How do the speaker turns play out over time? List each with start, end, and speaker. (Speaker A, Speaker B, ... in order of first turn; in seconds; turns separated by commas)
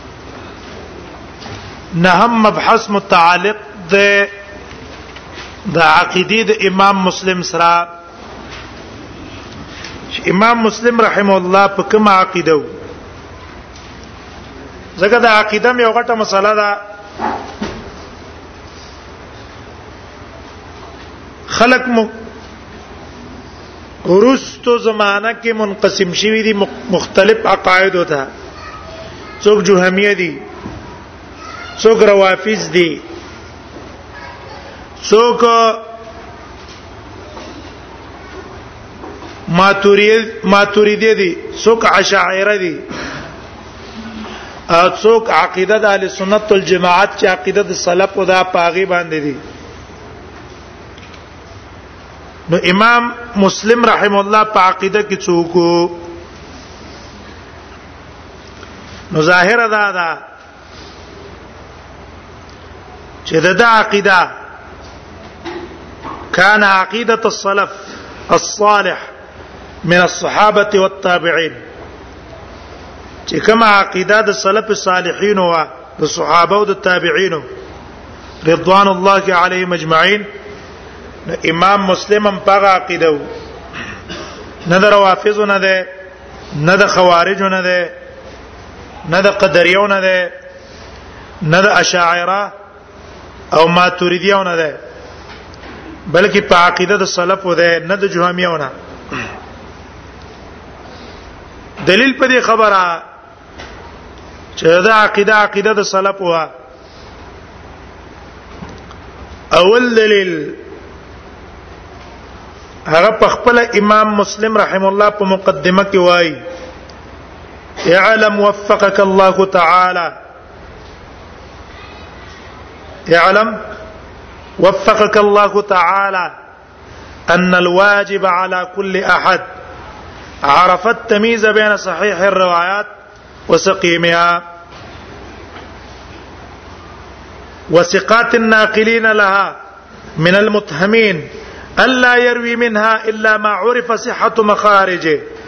Speaker A: 2.0-4.3, Speaker A: 5.7-7.9, Speaker A: 10.1-12.7, Speaker A: 15.0-16.8, Speaker A: 21.5-22.1, Speaker A: 24.1-28.3, Speaker A: 29.4-30.4, Speaker A: 31.8-33.0, Speaker A: 35.0-35.9, Speaker A: 39.5-42.8, Speaker A: 44.7-49.4, Speaker A: 52.5-56.0, Speaker A: 59.1-60.2, Speaker A: 63.3-64.3, Speaker A: 66.3-69.0, Speaker A: 69.8-71.5, Speaker A: 73.3-77.5, Speaker A: 78.4-80.3, Speaker A: 81.3-83.2, Speaker A: 84.7-85.9, Speaker A: 86.5-87.9, Speaker A: 89.1-90.3, Speaker A: 91.4-92.5, Speaker A: 93.5-94.8, Speaker A: 96.1-98.7, Speaker A: 101.8-103.0, Speaker A: 104.6-106.5, Speaker A: 109.5-110.6, Speaker A: 112.9-116.4, Speaker A: 117.8-120.1, Speaker A: 123.1-123.6, Speaker A: 124.6-126.3, Speaker A: 127.3-129.4, Speaker A: 130.4-132.9, Speaker A: 133.5-134.4, Speaker A: 137.7-139.5, Speaker A: 140.2-141.2, Speaker A: 141.8-145.2